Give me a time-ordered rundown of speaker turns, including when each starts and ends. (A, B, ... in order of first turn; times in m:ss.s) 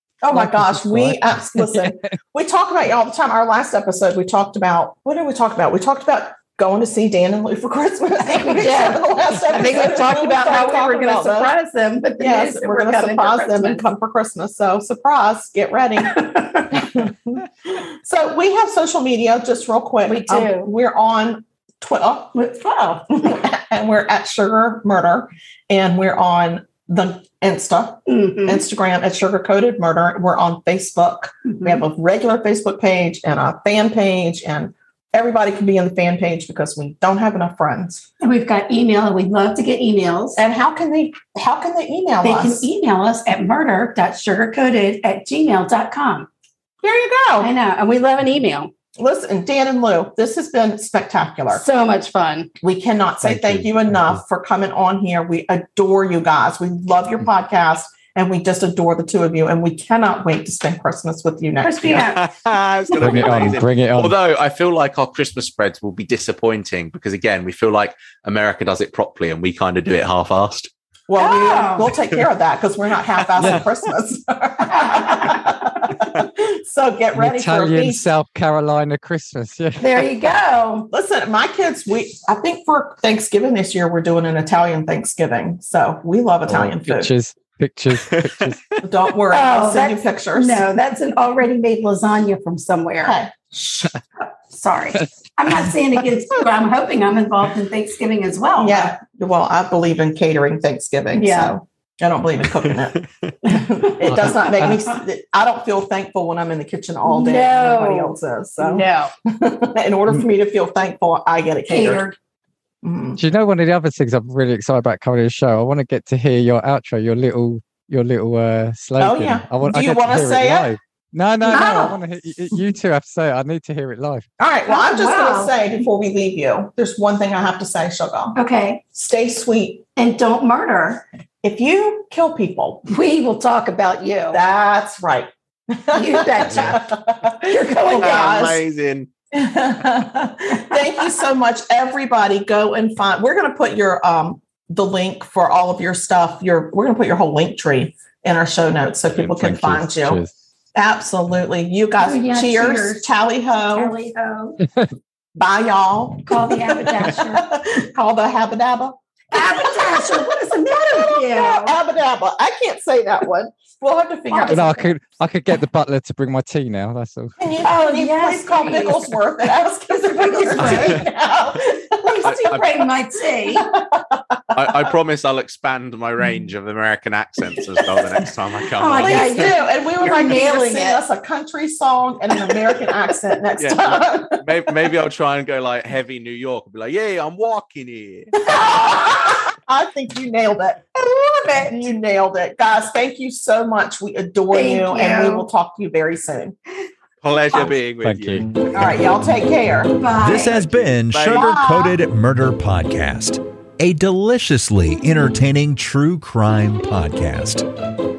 0:00.2-0:11.6 A
0:00.3-0:02.2 B
0:08.3-0:13.8 C
0:12.2-0:22.5 A
0:16.1-0:16.9 C
0:20.0-0:20.7 C
0:22.3-0:23.4 C
0:23.1-0:38.1 A
0:28.1-0:28.6 C
0:31.4-0:31.8 C
0:38.2-0:40.4 C
0:40.4-0:42.7 A
0:42.2-0:46.3 C
0:46.8-0:47.5 A
0:47.4-0:48.7 C
0:49.0-0:51.6 A
0:51.5-0:52.5 C
0:52.6-1:02.1 A
0:53.2-0:54.2 B
1:01.6-1:02.2 C
1:01.9-1:10.7 D
1:03.0-1:04.2 B
1:11.1-1:18.0 A
1:11.2-1:11.9 C
1:13.4-1:13.7 B
1:13.4-1:13.6 D
1:14.7-1:15.4 C
1:17.2-1:20.1 B
1:19.8-1:20.9 C
1:20.9-1:27.1 A
1:26.5-1:28.6 B
1:28.0-1:28.8 D
1:28.8-1:30.6 A
1:29.3-1:33.2 C
1:33.0-1:34.0 A
1:34.5-1:39.0 C
1:38.6-1:52.1 A
1:41.2-1:41.6 C
1:43.7-1:44.9 C
1:44.0-1:44.8 B
1:47.0-1:49.1 C
1:51.7-1:52.2 C
1:52.8-1:53.2 A
1:53.2-2:04.3 B
1:59.0-2:00.7 A
2:01.4-2:01.9 A
2:01.5-2:02.0 C
2:04.4-2:08.4 A
2:04.7-2:05.6 C
2:08.4-2:08.8 C
2:08.9-2:09.8 A
2:10.0-2:11.0 C
2:11.4-2:12.9 A
2:12.9-2:14.4 C
2:14.3-2:18.6 A
2:15.9-2:16.8 C
2:17.4-2:18.4 C
2:17.9-2:19.1 D
2:19.3-2:30.2 A
2:29.3-2:30.3 B
2:30.8-2:33.9 A
2:32.0-2:34.6 C
2:35.4-2:40.2 A
2:36.3-2:37.5 C
2:39.3-2:41.8 C
2:40.9-2:45.0 A
2:44.3-2:44.7 C
2:44.5-2:47.4 B
2:47.4-2:52.5 A
2:47.6-2:49.1 C
2:49.9-2:51.1 C
2:50.6-2:51.0 D
2:52.0-2:53.7 C
2:52.2-2:52.8 D
2:53.5-2:54.9 A
2:54.5-2:59.5 D
2:58.8-3:01.0 C
2:58.9-3:04.4 A
3:03.6-3:08.4 D
3:08.4-3:16.6 A
3:08.5-3:09.0 C
3:11.0-3:11.8 C
3:14.5-3:15.5 C
3:17.2-3:18.9 D
3:18.0-3:18.6 B
3:18.7-3:20.0 A
3:19.9-3:21.9 C
3:20.2-3:27.7 E
3:21.1-3:21.6 D
3:21.3-3:21.9 A